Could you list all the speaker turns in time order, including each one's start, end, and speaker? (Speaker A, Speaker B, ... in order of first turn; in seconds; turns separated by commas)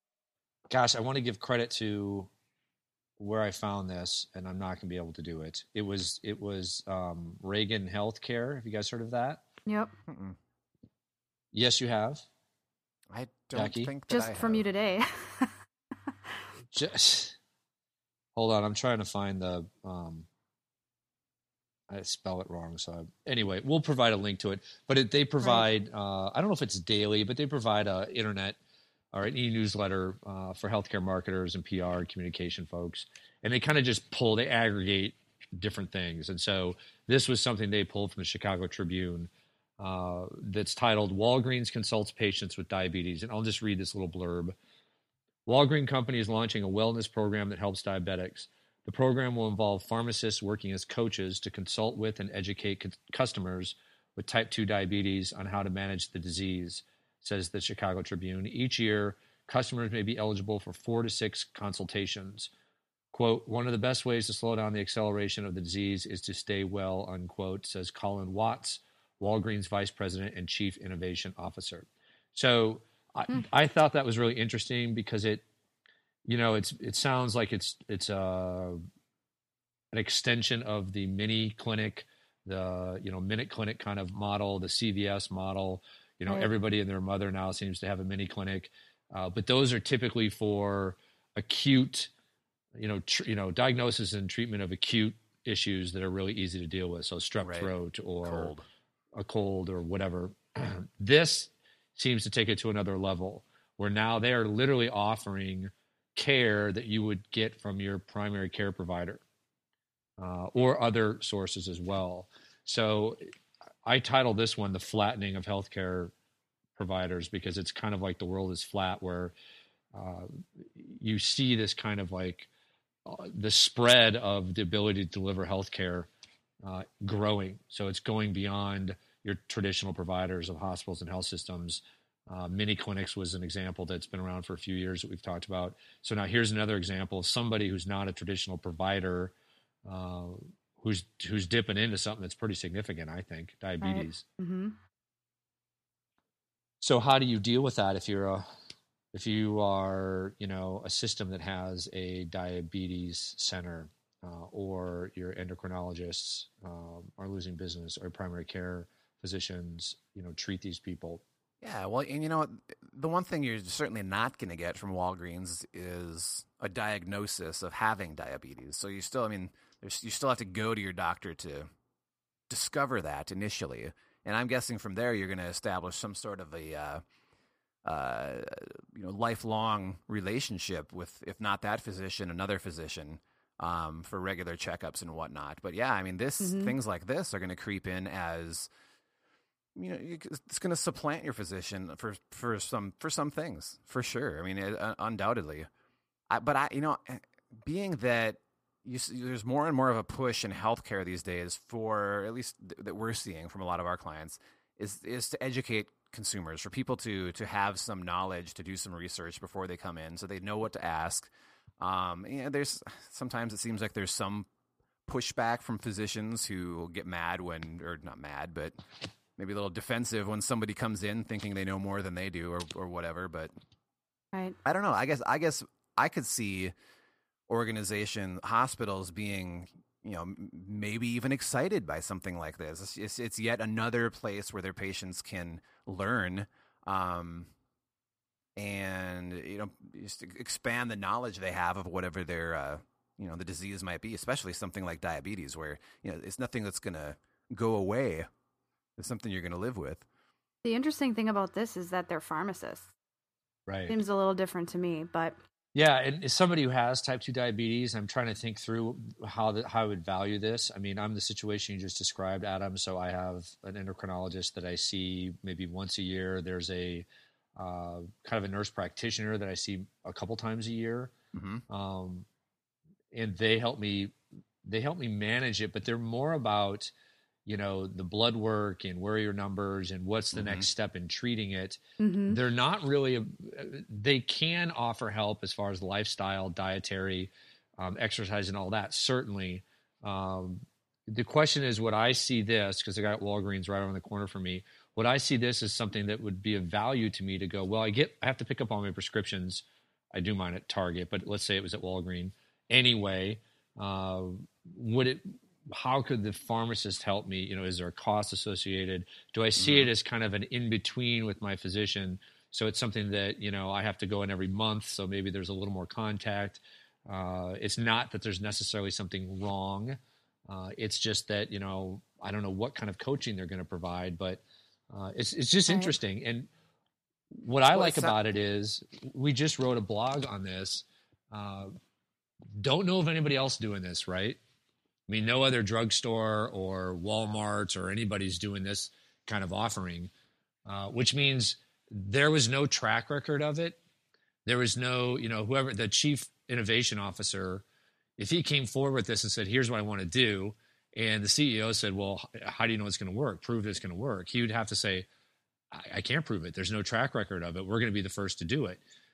Speaker A: 0.7-2.3, Speaker A: 3.2-9.4, Speaker B: 9.7-9.9, Speaker C: 10.1-10.4, Speaker A: 11.5-12.2, Speaker C: 13.1-14.6, Speaker A: 13.5-13.9, Speaker B: 14.1-15.5, Speaker A: 16.7-17.4, Speaker A: 18.4-20.3, Speaker A: 21.9-28.6, Speaker A: 29.1-44.5, Speaker A: 45.5-62.5, Speaker A: 63.1-75.4, Speaker A: 76.2-78.8, Speaker A: 79.9-92.1, Speaker A: 92.8-98.5, Speaker C: 97.4-98.7, Speaker A: 99.1-109.2, Speaker A: 110.2-113.2, Speaker A: 113.8-116.1, Speaker A: 116.8-119.3, Speaker A: 119.9-122.5, Speaker A: 123.0-126.1, Speaker A: 126.6-139.3, Speaker A: 139.8-144.2, Speaker B: 143.8-144.8, Speaker A: 146.8-148.4, Speaker A: 149.1-161.2, Speaker C: 161.6-171.7, Speaker C: 172.5-177.0, Speaker C: 177.8-188.7, Speaker B: 186.4-186.7, Speaker C: 189.8-195.7, Speaker C: 196.3-211.3, Speaker C: 211.8-214.5, Speaker C: 215.1-218.8, Speaker C: 219.4-223.5, Speaker C: 224.6-226.7, Speaker C: 227.5-237.5, Speaker C: 238.6-248.3, Speaker C: 249.0-250.0, Speaker B: 250.6-252.9, Speaker A: 253.7-253.9, Speaker B: 253.9-255.4, Speaker A: 255.7-267.0, Speaker A: 267.6-271.1, Speaker C: 271.3-271.6, Speaker A: 271.7-272.2, Speaker A: 273.1-276.9, Speaker A: 277.4-326.5, Speaker C: 280.3-280.7, Speaker B: 282.0-282.4, Speaker C: 309.6-309.9, Speaker B: 325.7-325.9, Speaker A: 327.3-331.7, Speaker C: 327.7-328.2, Speaker A: 332.6-334.4, Speaker A: 335.1-340.1, Speaker A: 340.6-343.8, Speaker A: 344.4-347.6, Speaker A: 348.2-355.1, Speaker A: 355.7-358.8